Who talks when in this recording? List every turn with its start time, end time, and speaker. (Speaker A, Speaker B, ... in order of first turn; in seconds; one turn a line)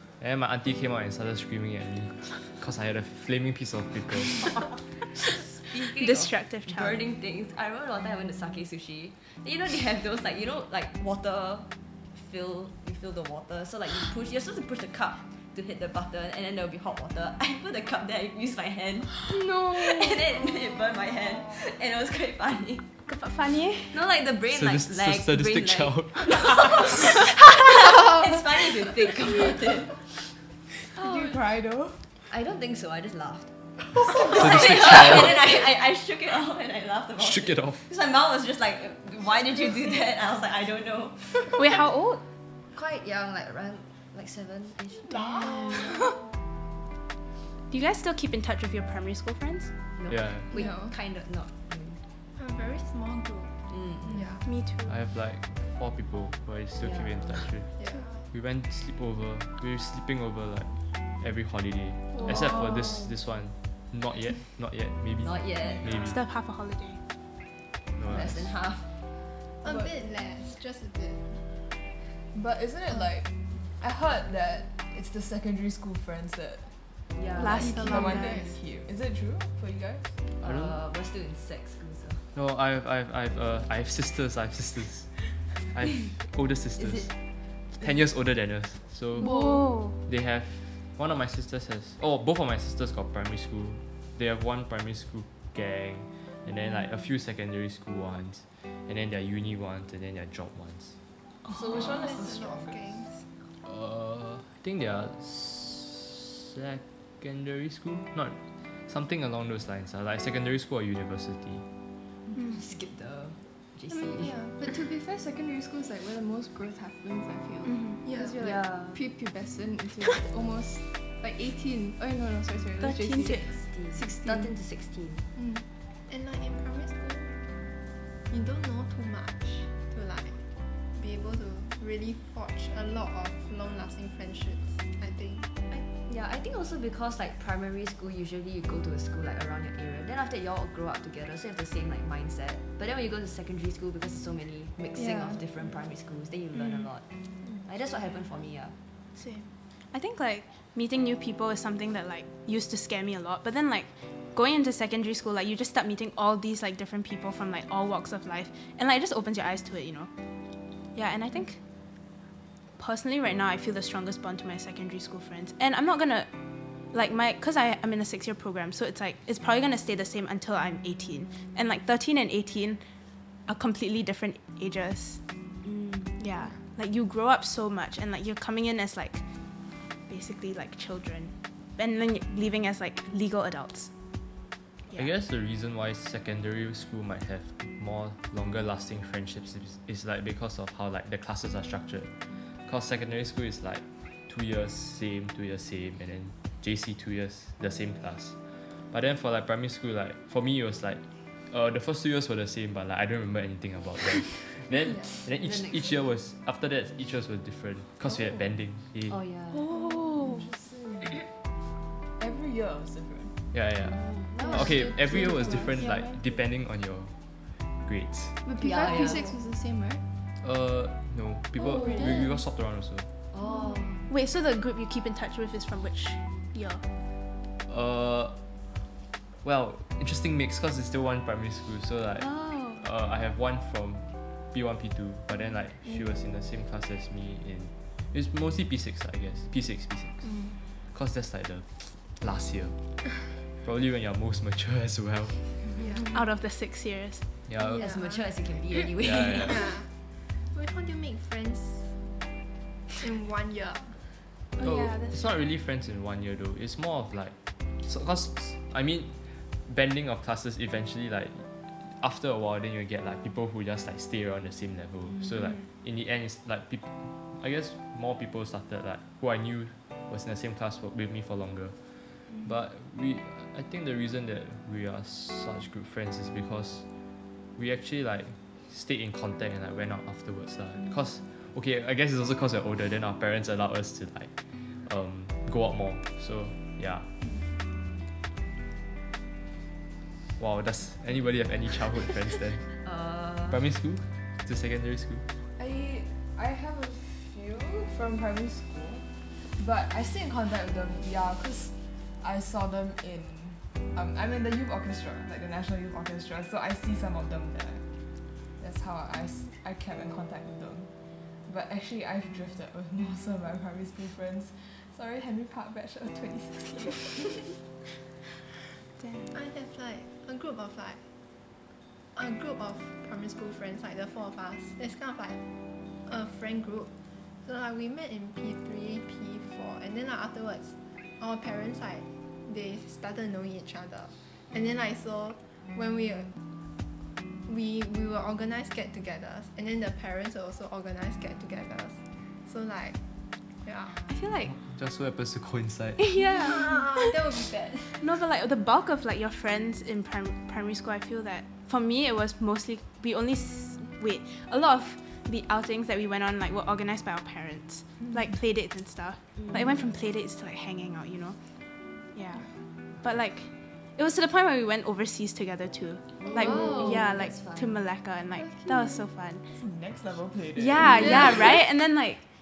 Speaker A: 0.2-4.6
Speaker B: 5.2-22.9
Speaker C: 5.8-7.0
Speaker D: 19.2-20.2
Speaker C: 23.1-24.0
Speaker B: 23.9-30.0
Speaker A: 24.5-27.0
Speaker E: 30.9-32.0
Speaker D: 31.0-31.4
Speaker B: 32.3-33.5
Speaker B: 34.1-41.6
Speaker A: 34.1-35.4
Speaker A: 37.2-37.9
Speaker C: 41.5-42.2
Speaker B: 42.7-46.1
Speaker F: 45.2-45.8
Speaker C: 47.7-49.7
Speaker B: 50.0-52.0
Speaker A: 50.1-50.5
Speaker D: 50.5-51.0
Speaker F: 52.4-54.5
Speaker B: 53.7-54.2
Speaker C: 54.5-54.9
Speaker A: 54.9-66.2
Speaker B: 56.8-57.5
Speaker F: 57.8-58.2
Speaker B: 62.2-63.1
Speaker B: 65.2-66.2
Speaker C: 65.8-67.0
Speaker A: 68.0-68.5
Speaker B: 68.1-68.9
Speaker F: 69.6-71.5
Speaker E: 69.6-69.9
Speaker E: 72.3-76.7
Speaker B: 77.1-78.2
Speaker C: 77.4-78.4
Speaker F: 77.6-78.5
Speaker E: 77.6-80.1
Speaker B: 80.4-82.3
Speaker A: 80.4-80.8
Speaker A: 82.3-87.1
Speaker B: 86.8-87.1
Speaker A: 87.8-89.3
Speaker D: 89.2-89.8
Speaker C: 89.2-90.0
Speaker A: 89.9-101.0
Speaker E: 101.5-102.8
Speaker F: 101.8-103.3
Speaker A: 103.6-111.6
Speaker B: 112.4-114.4
Speaker D: 113.9-124.6
Speaker C: 117.7-118.0
Speaker F: 118.1-118.3
Speaker B: 118.4-119.0
Speaker C: 122.8-123.5
Speaker B: 123.6-125.2
Speaker F: 126.1-127.4
Speaker F: 128.3-130.4
Speaker F: 130.9-135.5
Speaker B: 135.7-147.1
Speaker D: 144.9-145.4
Speaker B: 147.6-148.8
Speaker C: 149.1-160.1
Speaker C: 160.9-161.6
Speaker C: 162.8-166.3
Speaker C: 166.9-172.8
Speaker C: 173.5-175.2
Speaker B: 175.6-176.1
Speaker C: 176.2-179.2
Speaker C: 180.1-183.9
Speaker A: 184.9-192.1
Speaker A: 192.7-198.4
Speaker A: 198.9-209.2
Speaker B: 205.3-206.0
Speaker B: 209.1-209.7
Speaker C: 209.5-210.5
Speaker E: 209.7-211.3
Speaker E: 212.2-213.3
Speaker A: 213.5-217.2
Speaker B: 213.9-215.3
Speaker D: 214.4-216.2
Speaker A: 217.8-218.4
Speaker D: 218.4-220.0
Speaker B: 218.6-219.4
Speaker A: 220.4-223.1
Speaker D: 221.6-222.4
Speaker B: 221.8-222.2
Speaker B: 223.3-224.1
Speaker C: 224.1-226.8
Speaker A: 227.7-228.4
Speaker A: 229.4-240.3
Speaker A: 240.9-245.6
Speaker F: 245.8-246.1
Speaker C: 246.1-247.3
Speaker A: 247.5-247.9
Speaker F: 247.6-248.3
Speaker B: 247.6-249.8
Speaker A: 249.0-249.7
Speaker F: 249.5-251.9
Speaker F: 253.0-254.0
Speaker C: 254.6-255.2
Speaker A: 254.6-276.9
Speaker A: 277.5-287.1
Speaker A: 290.4-292.8
Speaker B: 292.8-293.6
Speaker A: 293.5-295.2
Speaker E: 295.6-307.8
Speaker E: 308.6-310.9
Speaker E: 311.5-317.3
Speaker C: 319.0-319.3
Speaker F: 319.3-321.0
Speaker F: 322.1-325.4
Speaker F: 326.1-326.9
Speaker F: 327.4-336.4
Speaker F: 337.5-343.0
Speaker F: 343.6-344.1
Speaker D: 344.1-344.5
Speaker A: 344.5-346.1
Speaker C: 346.0-347.1
Speaker F: 346.3-348.0
Speaker C: 348.0-361.4
Speaker B: 359.4-359.7
Speaker C: 362.1-362.5
Speaker C: 363.0-369.4
Speaker B: 366.2-367.8
Speaker D: 366.4-367.0
Speaker D: 368.3-369.1
Speaker E: 369.5-371.2
Speaker C: 370.5-372.2